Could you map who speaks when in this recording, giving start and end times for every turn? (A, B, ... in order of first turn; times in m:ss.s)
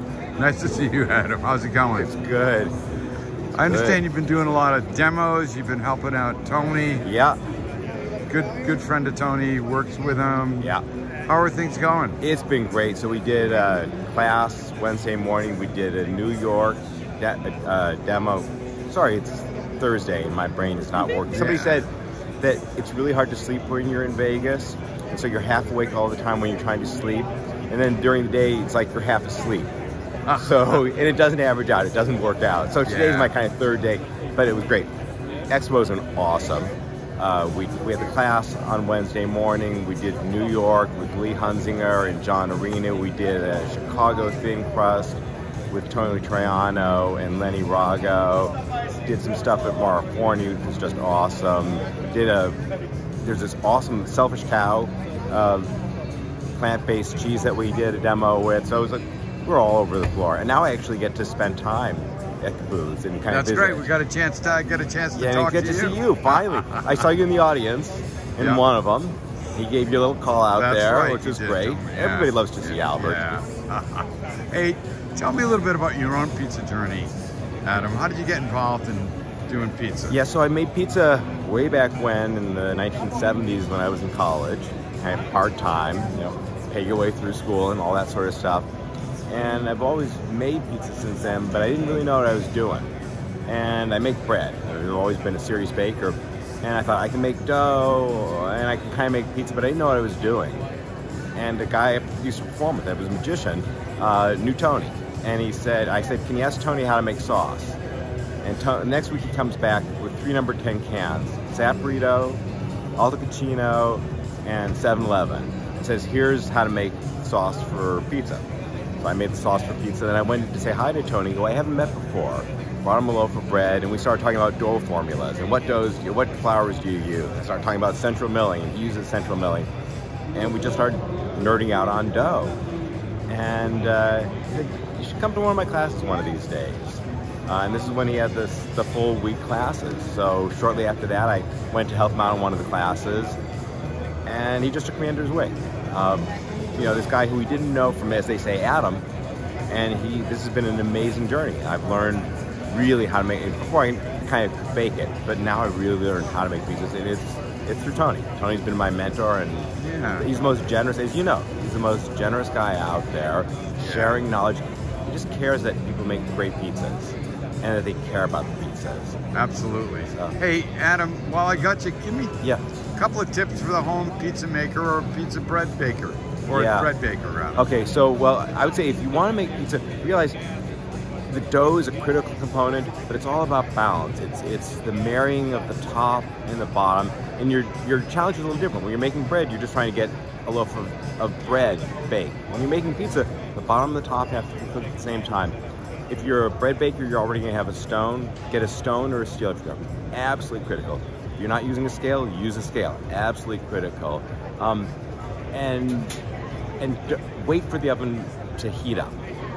0:00.4-0:02.1 A
0:01.9-0:02.7 B
0:03.6-0:07.0 A
0:03.6-0:04.0 B
0:07.0-0:07.4 B
0:08.3-0:10.7 A
0:11.3-0:12.2 A
0:12.2-0:21.9 B
0:21.3-0:21.8 A
0:22.4-0:29.7 B
0:30.3-0:30.8 A
0:30.3-0:34.9 B
0:32.8-0:33.3 A
0:35.5-0:52.6 B
0:53.2-0:55.7 B
0:56.6-1:03.9 B
1:03.3-1:07.0 A
1:05.2-1:13.2 B
1:08.4-1:08.6 A
1:10.6-1:17.1 A
1:17.6-1:20.2 A
1:20.1-1:28.7 B
1:29.3-1:32.9 B
1:33.5-1:40.6 B
1:41.4-1:47.8 B
1:48.4-1:52.4 B
1:53.0-1:58.4 B
1:59.0-2:09.7 B
2:10.4-2:12.6 B
2:13.3-2:23.4 B
2:24.3-2:29.0 B
2:29.7-2:49.2 B
2:39.8-2:40.3 A
2:43.8-2:44.2 A
2:49.3-2:52.4 A
2:53.0-2:57.7 A
2:56.5-2:56.9 B
2:57.6-3:00.4 B
3:01.3-3:15.6 B
3:16.1-3:24.9 B
3:25.5-3:26.2 B
3:26.8-3:29.2 B